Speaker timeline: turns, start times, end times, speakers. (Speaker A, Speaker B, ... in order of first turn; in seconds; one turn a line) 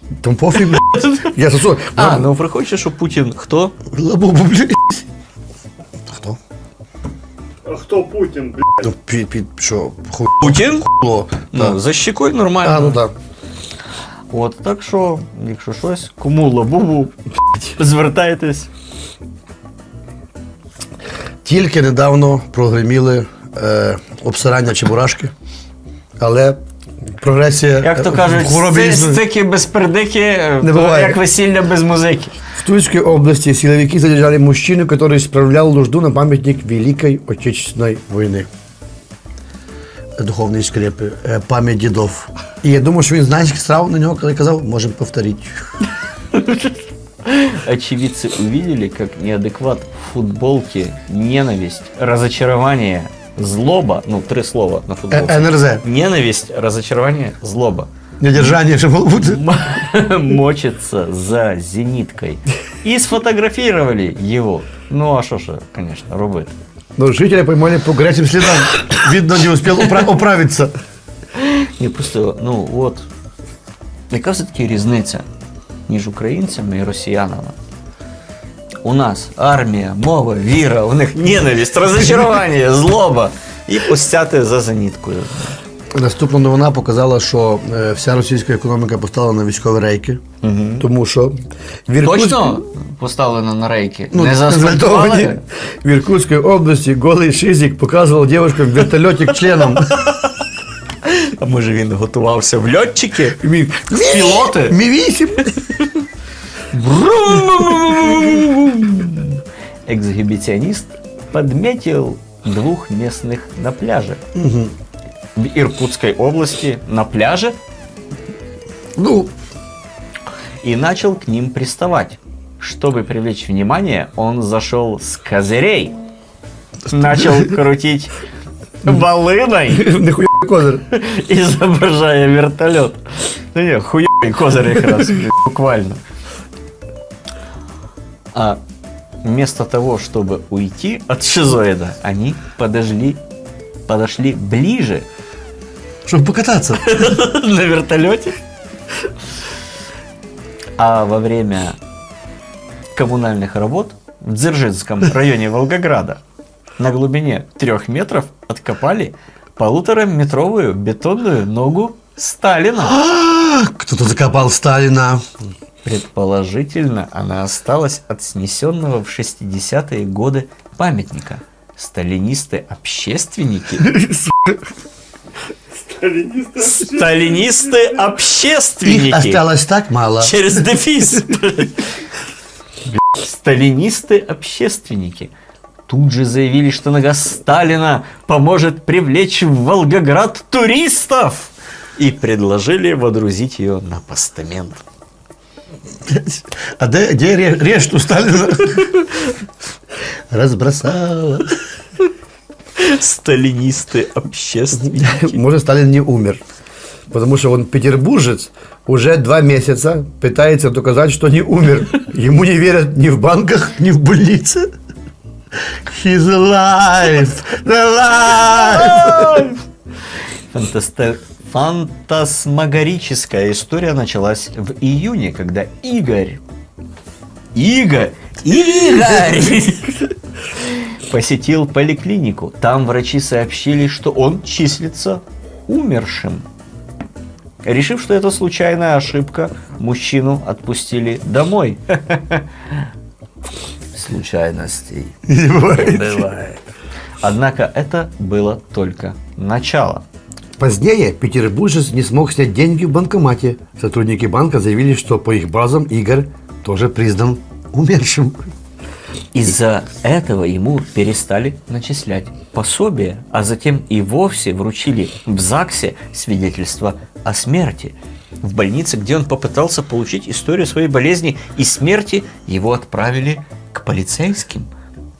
Speaker A: 0.2-2.3
Speaker B: 0.6-1.3
Speaker B: 1.9-3.8
Speaker A: 3.9-5.0
Speaker A: 6.1-6.4
Speaker C: 7.7-8.9
Speaker A: 8.8-11.8
Speaker B: 10.4-10.8
Speaker B: 11.5-13.0
Speaker A: 12.6-13.1
Speaker B: 14.3-18.7
Speaker A: 21.4-25.3
Speaker A: 26.2-26.6
Speaker A: 27.2-29.2
Speaker B: 27.8-32.4
Speaker A: 30.6-31.2
Speaker A: 32.6-38.5
Speaker A: 40.2-45.6
Speaker B: 46.3-57.9
Speaker A: 55.1-55.8
Speaker A: 58.2-59.4
Speaker B: 59.2-66.5
Speaker A: 67.0-70.8
Speaker B: 71.3-73.1
Speaker B: 74.1-75.2
Speaker B: 75.9-77.6
Speaker B: 78.8-85.6
Speaker A: 85.9-90.2
Speaker B: 90.4-90.9
Speaker A: 90.8-92.6
Speaker B: 92.0-95.4
Speaker A: 94.1-100.0
Speaker B: 99.8-100.4
Speaker B: 101.0-103.4
Speaker A: 103.4-105.6
Speaker B: 103.9-104.8
Speaker B: 106.7-114.2
Speaker A: 114.3-114.7
Speaker B: 115.4-117.6
Speaker A: 119.0-119.3
Speaker B: 120.6-126.0
Speaker B: 126.9-128.2
Speaker B: 128.8-130.0
Speaker A: 129.7-130.8
Speaker B: 130.9-136.0
Speaker B: 138.3-138.6
Speaker B: 139.2-143.2
Speaker B: 143.9-145.1
Speaker A: 146.1-146.9
Speaker B: 146.8-148.4
Speaker B: 150.8-151.8
Speaker B: 152.9-156.2
Speaker B: 156.8-163.0
Speaker A: 162.9-165.2
Speaker B: 165.8-174.0
Speaker A: 173.9-174.6
Speaker C: 176.0-177.1
Speaker B: 176.6-179.4
Speaker A: 178.8-180.5
Speaker B: 180.2-181.9
Speaker B: 183.0-185.3
Speaker B: 185.9-194.8
Speaker A: 196.1-198.9
Speaker B: 198.8-199.3
Speaker A: 200.3-201.6
Speaker B: 202.8-205.4
Speaker A: 204.8-206.4
Speaker A: 207.1-214.7
Speaker A: 215.7-219.4
Speaker B: 218.4-219.6
Speaker B: 220.5-226.4
Speaker B: 227.6-236.4
Speaker B: 237.6-242.8
Speaker B: 243.9-246.6
Speaker A: 245.3-246.3
Speaker B: 247.2-250.1
Speaker A: 250.6-258.5
Speaker B: 259.3-274.7